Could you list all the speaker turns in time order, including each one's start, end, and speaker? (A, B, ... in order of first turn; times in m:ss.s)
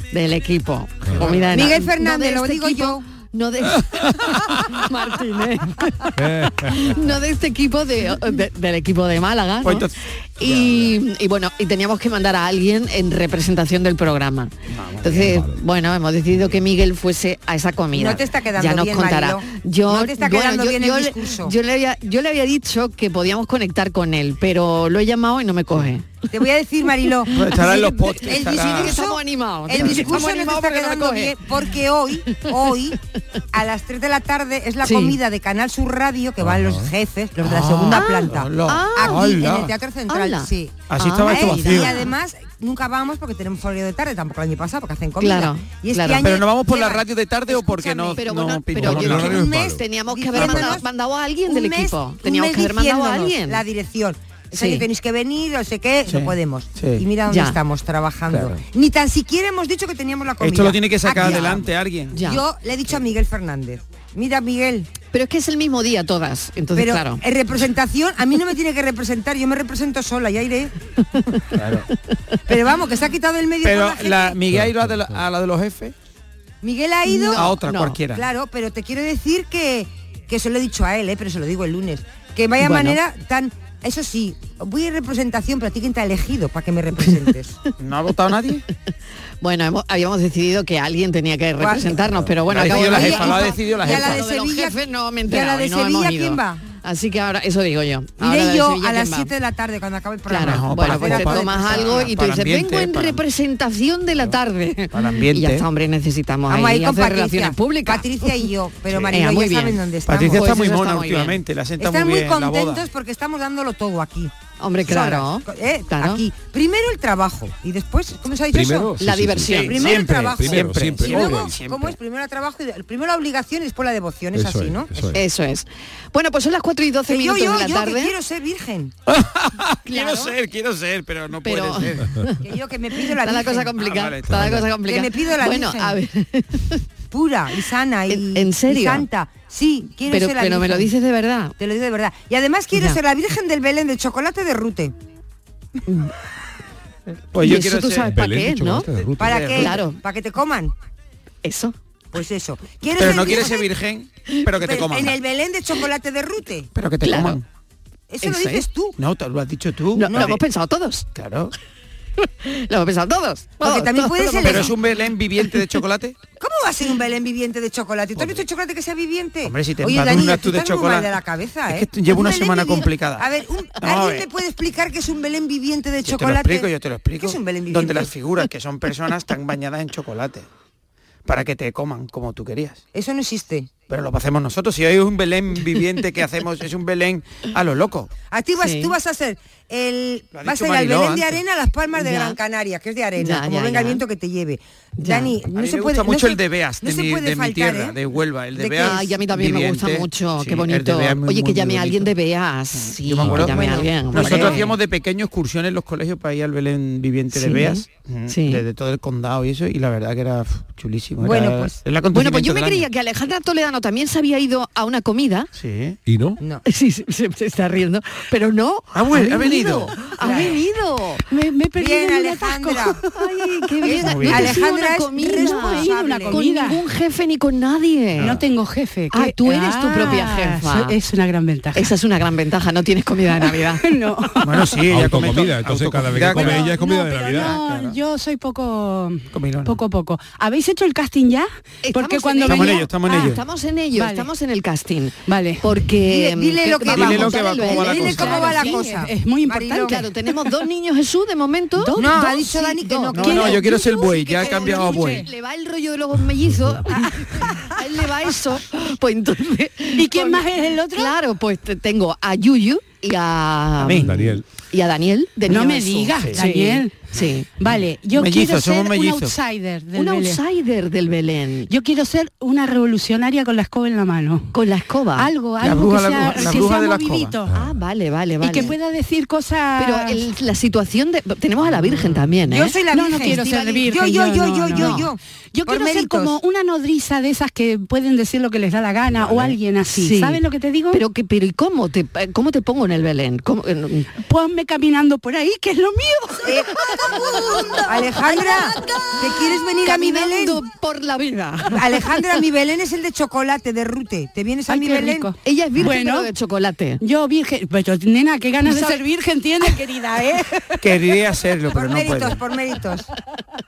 0:00.1-0:06.1 A
0:01.0-0:01.4 B
0:01.2-0:01.5 C
0:01.5-0:03.0 D
0:06.2-0:07.0 B
0:06.6-0:09.9 A
0:09.6-0:11.0 C
0:10.4-0:26.1 A
0:14.7-0:15.4 C
0:15.2-0:15.6 B
0:17.9-0:21.5 D
0:26.3-0:33.0 D
0:27.3-0:29.0 C
0:27.5-0:31.4 A
0:32.3-0:32.9 A
0:33.5-0:48.2 D
0:34.8-0:35.2 A
0:36.4-0:36.9 B
0:37.4-0:39.7 C
0:37.9-0:39.3 A
0:40.1-0:42.1 A
0:40.9-0:42.0 C
0:45.2-0:46.3 A
0:46.2-0:49.4 C
0:48.2-0:53.6 A
0:48.8-0:50.9 D
0:48.8-0:49.8 B
0:50.4-0:50.8 C
0:51.5-1:01.7 D
0:54.5-0:54.9 A
0:56.1-0:57.0 C
0:57.3-0:57.6 A
0:58.3-0:58.6 C
1:00.4-1:02.2 C
1:01.2-1:01.6 A
1:02.1-1:02.4 A
1:02.2-1:04.9 D
1:05.1-1:07.2 A
1:06.7-1:10.8 D
1:11.5-1:11.9 C
1:12.5-1:14.4 D
1:13.6-1:16.0 C
1:14.5-1:15.3 B
1:16.6-1:17.5 D
1:17.1-1:18.0 A
1:17.3-1:18.3 C
1:18.1-1:27.6 D
1:22.6-1:23.0 A
1:27.8-1:28.6 C
1:29.4-1:39.3 A
1:31.6-1:32.0 D
1:32.5-1:34.3 C
1:32.5-1:36.6 D
1:38.2-1:42.1 D
1:40.3-1:48.5 A
1:40.4-1:43.2 C
1:44.9-1:45.7 C
1:46.5-1:50.5 D
1:49.1-1:49.8 A
1:50.1-1:52.8 C
1:50.3-1:51.4 A
1:51.8-1:54.3 D
1:54.6-1:56.3 A
1:54.8-1:58.9 D
1:58.5-2:01.6 B
1:59.0-1:59.9 A
1:59.5-2:02.0 C
1:59.5-2:04.9 D
2:04.4-2:05.2 B
2:05.2-2:08.1 A
2:07.1-2:08.9 D
2:09.1-2:12.2 C
2:10.0-2:10.3 A
2:11.4-2:12.0 A
2:12.4-2:13.7 D
2:13.1-2:16.8 A
2:13.8-2:14.7 C
2:14.3-2:14.6 B
2:14.8-2:16.0 D
2:17.1-2:20.9 D
2:18.1-2:19.1 A
2:20.1-2:21.6 A
2:21.6-2:24.9 D
2:22.7-2:23.0 A
2:25.9-2:26.1 A
2:27.3-2:28.1 C
2:27.4-2:28.9 A
2:28.0-2:29.5 B
2:29.2-2:30.7 D
2:29.2-2:29.8 C
2:29.6-2:30.0 A
2:31.4-2:31.8 A
2:32.1-2:33.7 D
2:33.0-2:35.2 C
2:34.6-2:36.7 D
2:36.8-2:37.4 C
2:37.0-2:37.4 A
2:38.1-2:39.0 D
2:38.2-2:38.6 A
2:39.0-2:40.4 C
2:40.0-2:41.1 A
2:40.1-2:40.4 D
2:41.2-2:41.5 C
2:42.2-2:44.7 A
2:43.6-2:44.7 D
2:44.3-2:46.2 C
2:46.4-2:58.1 D
2:48.2-2:48.4 C
2:49.4-2:51.1 C
2:51.7-2:53.3 C
2:53.8-2:54.3 C
2:56.0-3:00.5 C
3:01.3-3:02.8 C
3:02.9-3:03.7 D
3:03.9-3:08.1 C
3:08.3-3:18.0 D
3:08.6-3:08.9 A
3:10.3-3:11.4 C
3:12.0-3:12.4 A
3:13.2-3:14.0 A
3:15.0-3:15.4 A
3:15.5-3:22.1 C
3:18.6-3:19.0 D
3:18.8-3:24.8 A
3:22.7-3:32.9 C
3:23.2-3:23.5 B
3:23.4-3:24.7 D
3:27.3-3:28.6 A
3:31.2-3:31.8 D
3:32.1-3:35.5 A
3:35.6-3:36.0 C
3:36.1-3:36.4 B
3:36.4-3:36.6 D
3:36.6-3:41.2 A
3:38.9-3:40.1 C
3:40.2-3:40.6 D
3:41.3-3:43.0 E
3:41.8-3:43.0 D
3:43.2-3:48.4 A
3:43.8-3:46.4 D
3:44.0-3:44.5 C
3:45.2-3:46.8 E
3:48.2-3:48.4 C
3:48.2-3:51.9 E
3:49.1-3:51.0 A
3:51.7-3:53.9 A
3:53.8-3:54.7 E
3:54.4-3:56.8 C
3:54.9-3:57.6 B
3:56.3-4:03.1 E
3:57.3-3:58.0 C
3:59.3-3:59.8 C
4:01.8-4:08.8 A
4:02.4-4:03.4 C
4:04.0-4:04.3 E
4:05.3-4:05.7 E
4:06.0-4:10.0 D
4:06.9-4:08.7 C
4:07.8-4:10.5 E
4:09.9-4:27.5 A
4:11.8-4:12.6 E
4:12.0-4:14.9 D
4:13.2-4:15.3 C
4:13.2-4:15.2 E
4:16.4-4:16.8 B
4:19.9-4:21.1 E
4:23.8-4:24.2 C
4:24.0-4:24.4 B
4:25.5-4:27.1 E
4:26.2-4:26.5 C
4:27.6-4:30.4 E
4:27.7-4:29.3 C
4:30.0-4:31.7 A
4:31.7-4:34.5 E
4:34.5-4:35.3 A
4:35.2-4:37.5 E
4:35.6-4:37.4 C
4:37.5-4:37.8 B
4:37.5-4:38.8 A
4:38.4-4:40.2 E
4:39.8-4:43.8 A
4:42.5-4:46.4 D
4:42.9-4:51.0 E
4:44.7-4:45.1 A
4:49.2-4:49.5 B
4:49.9-4:54.2 A
4:54.2-4:58.4 E
4:56.4-4:56.7 D
4:56.9-5:02.0 A
4:57.3-5:00.6 D
5:01.7-5:05.3 D
5:04.7-5:06.3 E
5:05.4-5:07.0 A
5:07.0-5:10.8 E
5:08.6-5:09.0 A
5:10.8-5:12.4 C
5:11.7-5:13.1 D